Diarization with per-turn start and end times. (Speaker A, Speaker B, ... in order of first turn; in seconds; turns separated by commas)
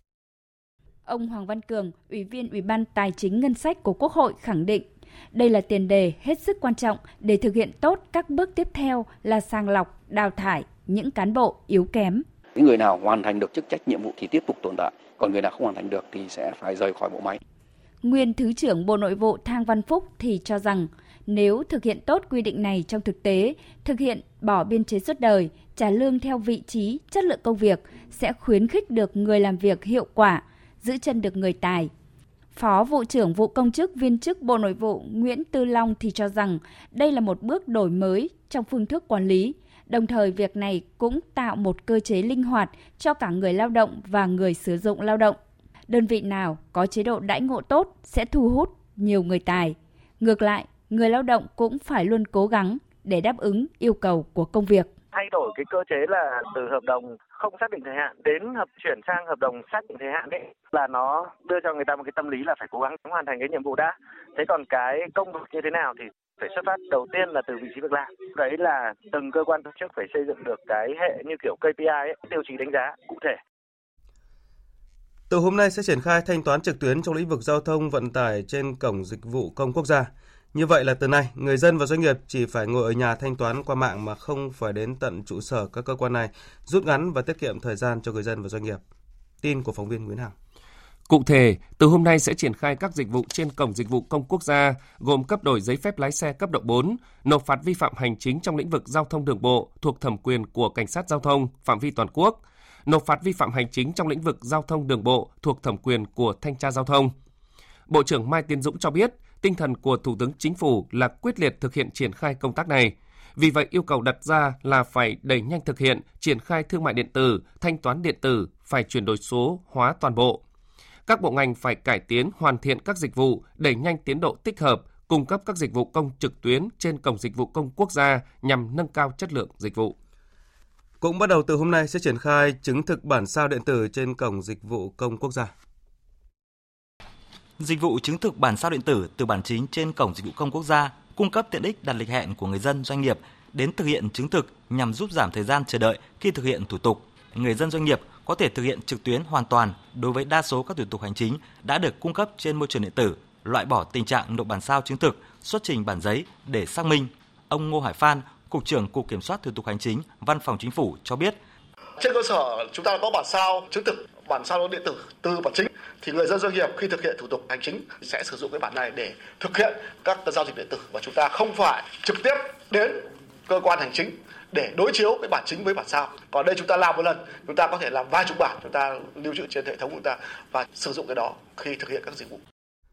Speaker A: 1.1-12.2, Speaker B: 12.6-17.4, Speaker A: 18.0-31.9, Speaker A: 32.5-45.4, Speaker A: 45.9-54.9, Speaker C: 55.1-73.4, Speaker D: 75.3-88.8, Speaker D: 89.4-90.3, Speaker E: 91.1-107.1, Speaker E: 107.9-120.4, Speaker E: 121.1-129.9, Speaker D: 131.0-135.5, Speaker F: 137.6-161.4, Speaker G: 162.0-182.4